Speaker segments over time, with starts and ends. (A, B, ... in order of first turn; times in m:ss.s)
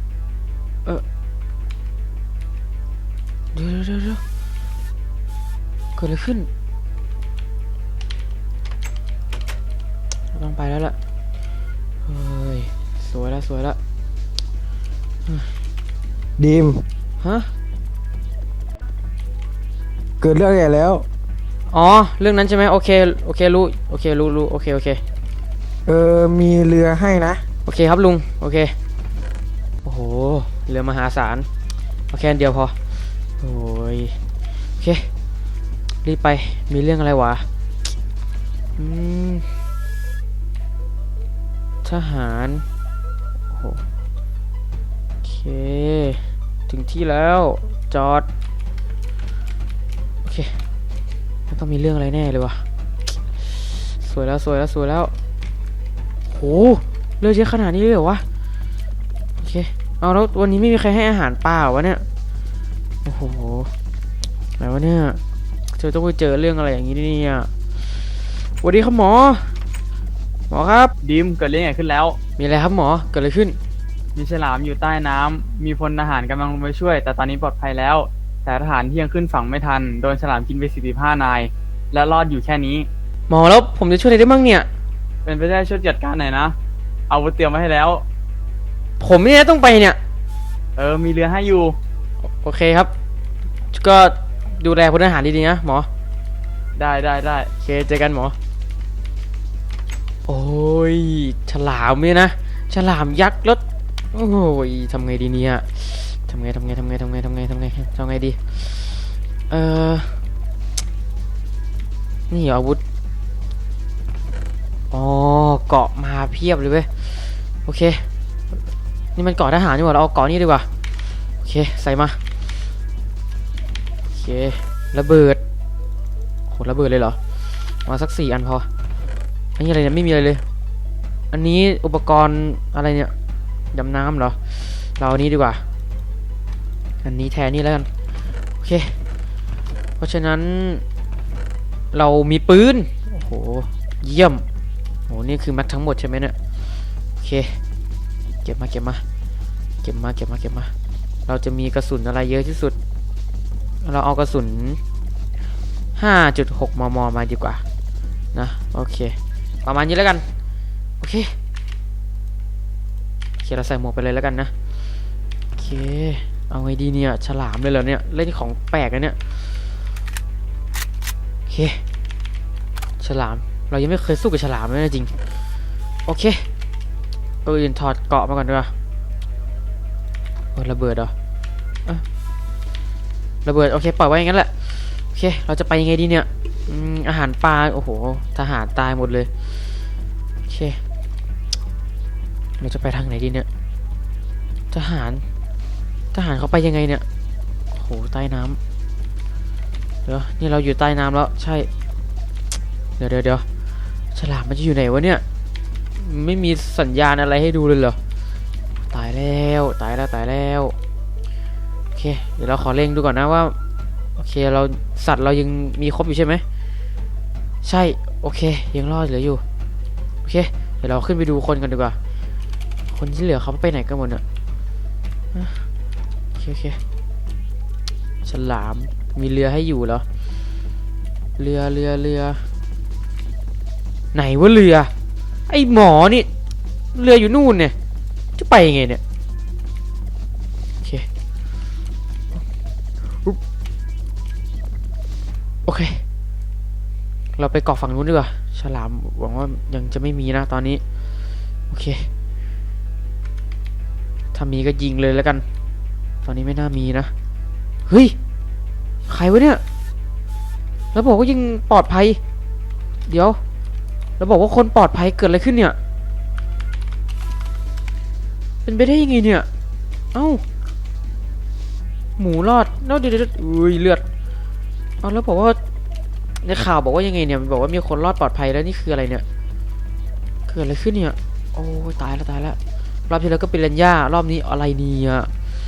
0:03.5-0:04.2 A
0:06.0-0:06.5 A
0:10.3-0:11.0 A
0:12.0-0:13.8 A
0:15.2-0:15.6 A
0:16.4-0:16.8 B
0:17.2-0:17.5 A
0:20.2-0:21.0 B
0:21.7-0:25.0 A
0:25.9-0:27.4 B
0:27.6-0:28.7 A
0:29.8-0:31.5 A
0:32.1-0:35.1 A
0:36.0-0:37.5 A
0:38.8-0:39.6 A
0:41.8-0:42.6 A
0:43.5-0:43.8 A
0:45.2-0:48.3 A
0:50.2-0:50.6 A
0:51.5-0:52.6 A
0:53.2-0:55.1 A
0:56.2-0:58.2 A
0:59.4-1:02.0 A
1:03.0-1:03.7 A
1:04.6-1:05.2 A
1:05.7-1:09.6 A
1:10.5-1:10.9 A
1:11.0-1:12.2 C
1:12.4-1:13.6 A
1:14.1-1:22.9 C
1:23.3-1:24.7 A
1:25.2-1:26.6 C
1:27.1-1:28.0 C
1:29.0-1:30.0 A
1:30.8-1:31.8 C
1:32.2-1:32.9 A
1:33.7-1:35.9 A
1:36.8-1:37.5 C
1:37.6-1:38.4 A
1:40.2-1:43.6 A
1:44.1-1:50.2 A
1:52.3-1:52.8 A
1:54.9-1:58.1 A
1:59.2-2:00.7 A
2:01.4-2:02.2 A
2:04.1-2:05.4 A
2:06.5-2:08.7 A
2:09.6-2:10.4 A
2:11.3-2:13.1 A
2:13.7-2:15.6 A
2:17.0-2:17.9 A
2:18.6-2:19.0 A
2:20.0-2:20.8 A
2:21.9-2:24.4 A
2:25.1-2:26.4 A
2:27.2-2:27.6 A
2:28.4-2:29.0 A
2:29.8-2:30.7 A
2:31.3-2:32.8 A
2:33.8-2:34.8 A
2:36.0-2:37.6 A
2:38.3-2:40.2 A
2:41.0-2:41.3 A
2:43.4-2:44.5 A
2:45.6-2:49.7 A
2:51.5-2:51.8 A
2:53.0-2:55.1 A
2:56.0-2:56.5 A
2:57.4-2:58.7 A
3:00.5-3:01.1 A
3:03.4-3:09.9 A
3:10.5-3:10.8 A
3:12.6-3:13.5 A
3:14.7-3:15.2 A
3:16.1-3:17.0 A
3:17.7-3:18.6 A
3:20.0-3:21.7 A
3:23.0-3:23.4 A
3:24.1-3:25.2 A
3:26.0-3:28.0 A
3:28.9-3:30.8 A
3:31.9-3:33.6 A
3:34.2-3:36.4 A
3:37.6-3:39.4 A
3:40.2-3:42.0 A
3:42.9-3:44.2 A
3:45.3-3:45.6 A
3:46.3-3:46.8 A
3:48.2-3:50.0 A
3:51.4-3:52.4 A
3:54.1-3:54.9 A
3:55.5-3:56.3 A
3:56.9-3:57.7 A
3:58.4-3:59.0 A
4:00.8-4:01.1 A
4:03.0-4:03.4 A
4:05.6-4:06.0 A
4:07.4-4:10.8 A
4:11.7-4:12.1 A
4:14.3-4:15.4 A
4:16.2-4:17.1 A
4:17.9-4:18.1 A
4:19.1-4:19.6 A
4:20.9-4:22.2 A
4:23.1-4:23.4 A
4:24.2-4:25.8 A
4:28.6-4:29.5 A
4:30.1-4:30.4 A
4:32.2-4:34.0 A
4:35.0-4:35.6 A
4:36.4-4:39.2 A
4:40.5-4:45.3 A